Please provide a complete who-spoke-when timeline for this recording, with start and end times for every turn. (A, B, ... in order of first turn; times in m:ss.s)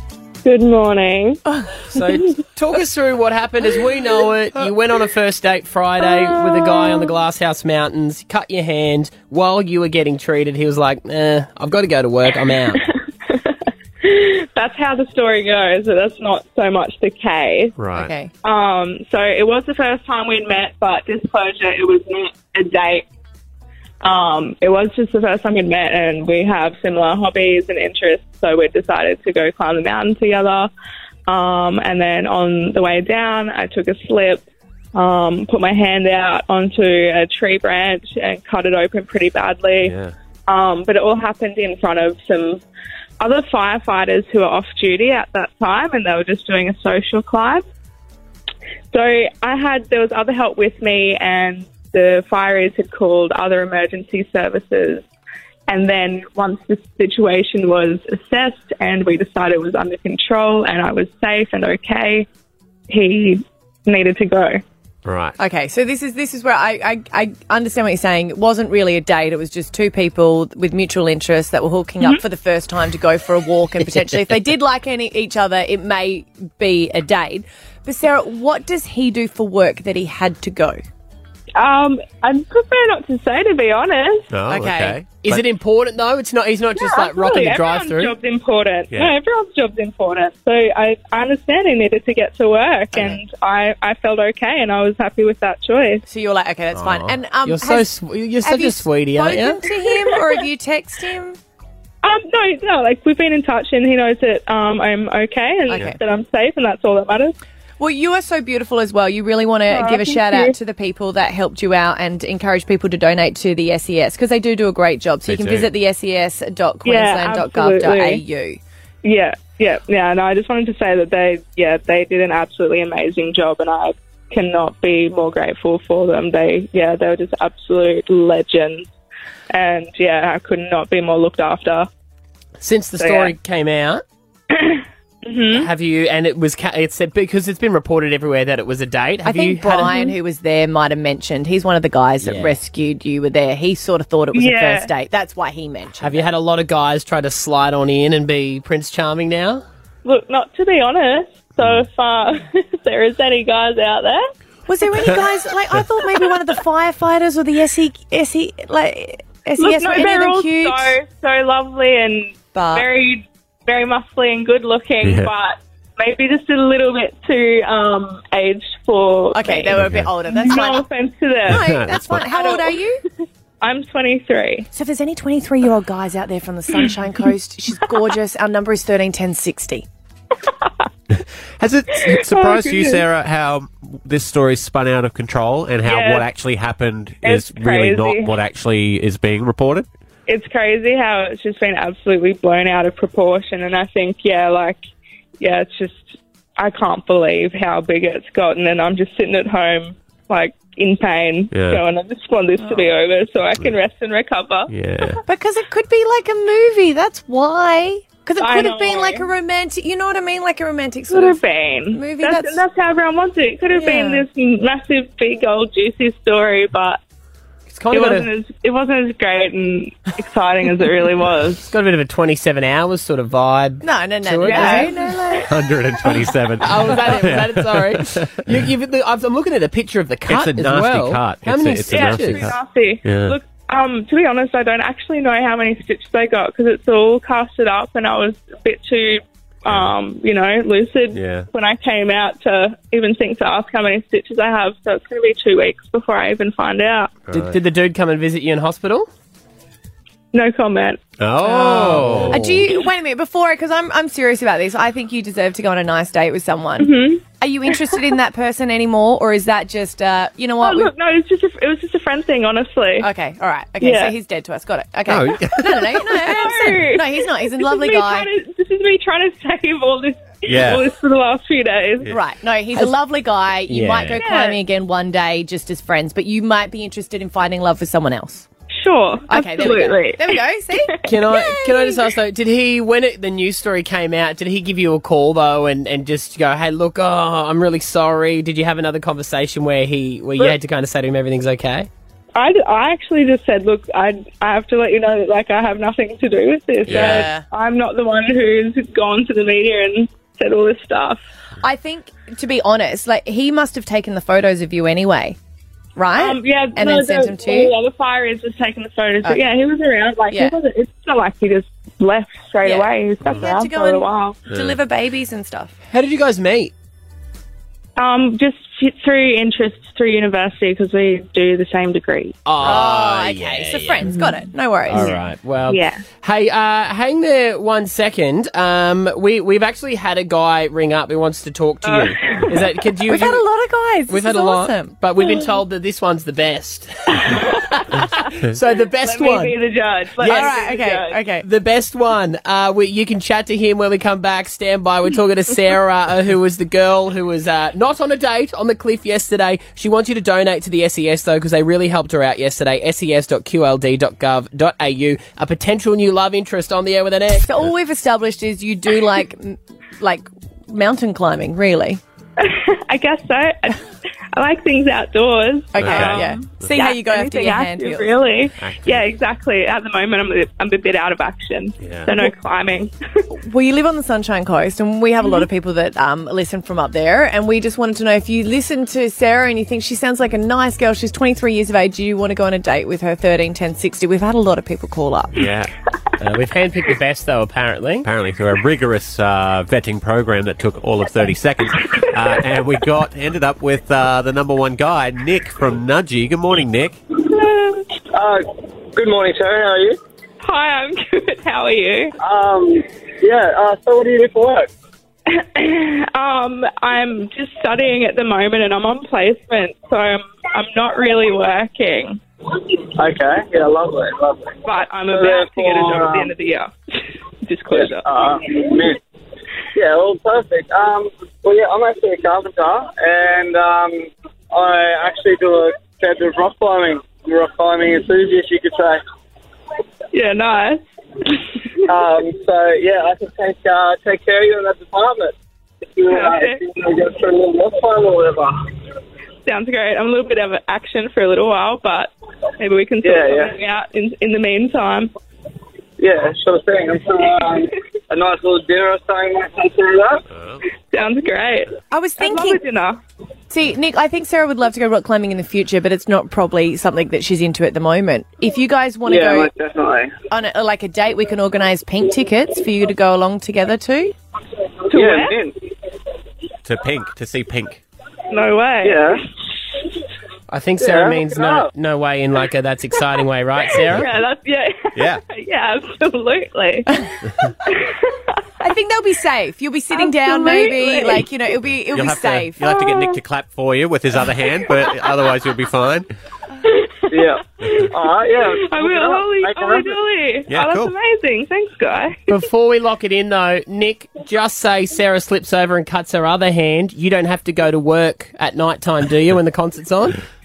0:00.4-0:01.4 A
0:01.4-0:01.8 B
0:01.9-0:12.8 C
0:06.4-0:07.1 A
0:12.7-0:17.8 A
0:17.8-0:18.1 D
0:17.9-0:18.3 B
0:18.4-0:23.0 A
0:24.0-0:30.7 A
0:31.3-0:39.9 A
0:39.8-0:40.1 D
0:40.5-0:42.6 A
0:43.2-0:47.6 A
0:48.9-0:55.0 A
0:55.7-1:02.3 A
1:02.9-1:04.6 A
1:05.0-1:05.3 D
1:05.4-1:20.8 B
1:21.5-1:24.2 A
1:24.3-1:25.4 D
1:24.5-1:25.0 B
1:25.2-1:28.1 C
1:26.8-1:36.0 A
1:32.9-1:33.2 B
1:36.1-1:37.9 B
1:36.7-1:39.6 C
1:38.4-1:41.4 B
1:39.9-1:40.1 A
1:42.0-1:47.4 A
1:45.7-1:46.0 B
1:45.7-1:46.0 D
1:47.8-1:58.6 B
1:49.7-1:50.5 A
1:55.3-1:55.7 D
1:56.8-1:58.2 A
1:59.0-2:08.9 A
2:09.5-2:11.9 A
2:12.6-2:14.0 C
2:13.0-2:13.3 A
2:14.5-2:15.7 A
2:15.5-2:20.1 C
2:19.2-2:26.2 B
2:22.2-2:22.6 C
2:24.3-2:24.9 A
2:26.0-2:29.6 C
2:30.0-2:34.3 A
2:34.7-2:41.0 B
2:39.6-2:49.7 A
2:42.5-2:42.9 B
2:45.0-2:45.3 D
2:49.3-2:50.9 B
2:49.8-2:50.1 D
2:50.3-2:52.8 A
2:51.5-2:53.0 B
2:51.5-2:52.2 D
2:53.6-2:54.7 A
2:54.7-2:59.8 B
3:01.1-3:09.9 D
3:02.1-3:03.0 A
3:05.8-3:06.3 A
3:07.2-3:08.3 A
3:10.2-3:14.8 A
3:15.4-3:24.7 A
3:21.5-3:21.8 D
3:22.6-3:22.9 B
3:24.7-3:25.2 D
3:25.2-3:31.4 B
3:28.4-3:29.3 A
3:31.1-3:37.0 A
3:31.9-3:32.6 B
3:33.7-3:34.2 B
3:37.7-3:38.3 C
3:37.9-3:41.7 A
3:41.7-3:44.9 C
3:43.8-3:45.5 B
3:44.5-3:44.9 A
3:45.4-3:48.5 D
3:46.6-3:52.5 C
3:50.3-3:53.4 D
3:51.9-4:07.1 A
3:59.7-3:59.9 D
4:01.1-4:01.4 D
4:07.3-4:07.6 D
4:07.3-4:09.1 C
4:10.3-4:11.0 A
4:11.2-4:12.7 D
4:11.4-4:20.9 B
4:11.9-4:12.4 C
4:16.8-4:17.2 A
4:20.6-4:23.1 A
4:23.0-4:28.3 B
4:23.8-4:24.1 A
4:25.1-4:25.8 D
4:26.2-4:32.1 A
4:30.4-4:30.8 D
4:32.1-4:38.5 B
4:33.7-4:34.2 C
4:34.2-4:34.6 A
4:38.8-4:41.3 A
4:39.3-4:41.5 B
4:41.1-4:51.9 C
4:52.3-5:01.2 A
4:56.8-4:57.3 D
4:56.9-4:57.4 B
5:01.6-5:05.4 B
5:06.0-5:07.7 B
5:06.2-5:14.4 A
5:10.3-5:10.6 B
5:12.6-5:15.7 B
5:14.5-5:14.8 D
5:15.9-5:16.7 C
5:18.0-5:22.4 A
5:22.4-5:24.0 C
5:22.6-5:25.2 B
5:24.0-5:24.4 A
5:24.9-5:33.4 C
5:25.7-5:26.0 A
5:31.8-5:32.5 A
5:33.1-5:35.0 B
5:34.1-5:39.6 C
5:39.0-5:41.2 A
5:40.2-5:40.6 C
5:40.2-5:41.5 B
5:41.4-5:57.6 C
5:57.4-6:02.0 B
6:02.4-6:13.3 A
6:05.7-6:08.2 B
6:05.8-6:06.7 D
6:08.6-6:09.1 D
6:11.8-6:12.1 D
6:13.3-6:25.4 B
6:15.2-6:15.5 A
6:25.3-6:25.7 D
6:26.2-6:28.1 C
6:28.0-6:37.0 D
6:37.3-6:37.8 A
6:38.1-6:38.4 E
6:38.9-6:40.0 E
6:40.4-6:42.1 A
6:42.2-6:44.7 E
6:45.3-6:52.2 A
6:53.0-6:54.5 E
6:54.6-6:56.7 A
6:55.1-6:56.3 E
6:57.4-6:58.1 A
6:57.7-6:59.0 E
6:59.7-7:09.0 E
7:10.1-7:10.8 A
7:11.9-7:15.3 E
7:15.9-7:18.5 E
7:16.1-7:16.6 A
7:19.4-7:25.1 A
7:23.0-7:23.5 E
7:26.0-7:30.2 E
7:30.3-7:30.6 D
7:30.9-7:33.0 A
7:31.9-7:32.6 B
7:33.5-7:39.5 B
7:39.0-7:40.1 E
7:40.3-7:44.1 B
7:44.9-7:45.4 A
7:44.9-7:45.5 E
7:46.6-7:47.8 D
7:48.3-7:49.1 A
7:48.8-7:49.2 E
7:50.5-7:54.1 C
7:50.8-7:51.7 E
7:53.9-7:57.1 A
7:54.9-7:55.2 D
7:57.6-7:58.2 A
7:58.6-8:02.6 B
7:59.9-8:01.3 A
8:01.8-8:06.1 D
8:02.6-8:03.2 A
8:06.6-8:07.9 A
8:07.1-8:10.0 E
8:08.4-8:12.3 A
8:10.5-8:10.9 D
8:12.3-8:20.2 C